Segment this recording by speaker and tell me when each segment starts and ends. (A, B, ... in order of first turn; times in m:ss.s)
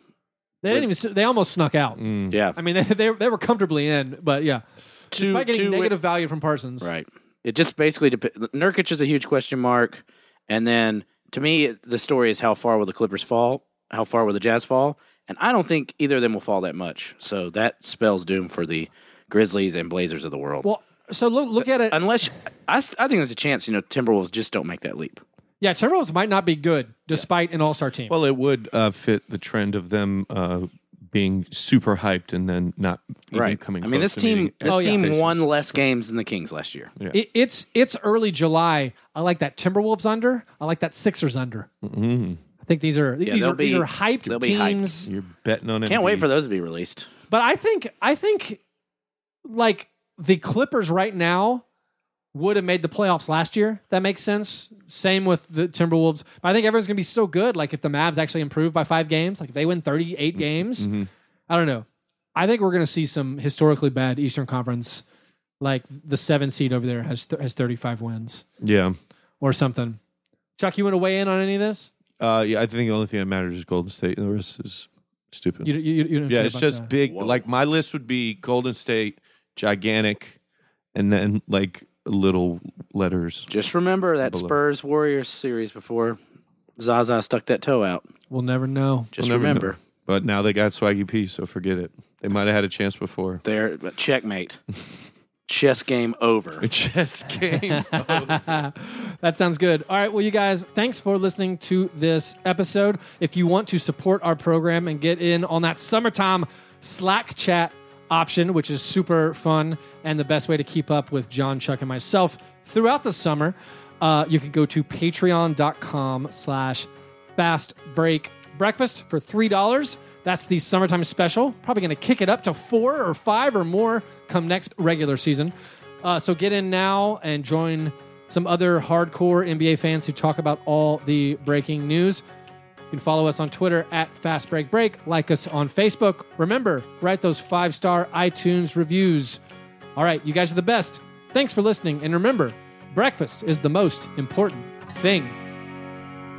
0:00.6-0:02.0 A
0:02.0-0:02.4 B
0:02.3-0:02.6 C
0:02.6-0:06.9 A
0:05.1-0:06.0 C
0:06.8-0:20.7 C
0:20.6-0:22.0 A
0:21.9-0:25.2 C
0:25.6-0:28.1 A
0:28.1-0:35.8 B
0:33.3-0:36.9 C
0:34.7-0:35.1 A
0:37.1-0:41.7 A
0:41.8-0:42.4 B
0:42.6-0:45.1 A
0:43.2-0:44.9 C
0:45.1-0:46.3 B
0:45.8-0:47.1 C
0:47.3-0:48.6 A
0:49.4-0:51.6 A
0:52.3-1:01.0 A
1:00.4-1:01.1 B
1:01.5-1:05.0 A
1:05.6-1:08.5 A
1:08.6-1:09.0 B
1:09.4-1:10.0 A
1:10.6-1:11.9 A
1:12.2-1:15.7 B
1:15.6-1:16.9 A
1:16.3-1:20.4 B
1:17.1-1:17.4 C
1:20.9-1:23.5 B
1:23.5-1:26.2 C
1:24.2-1:24.6 B
1:26.8-1:28.0 C
1:28.3-1:29.1 A
1:29.1-1:29.8 C
1:29.2-1:33.4 B
1:33.4-1:34.6 C
1:35.5-1:36.7 C
1:36.6-1:38.6 B
1:37.8-2:12.2 A
2:12.9-2:19.4 A
2:20.0-2:25.4 A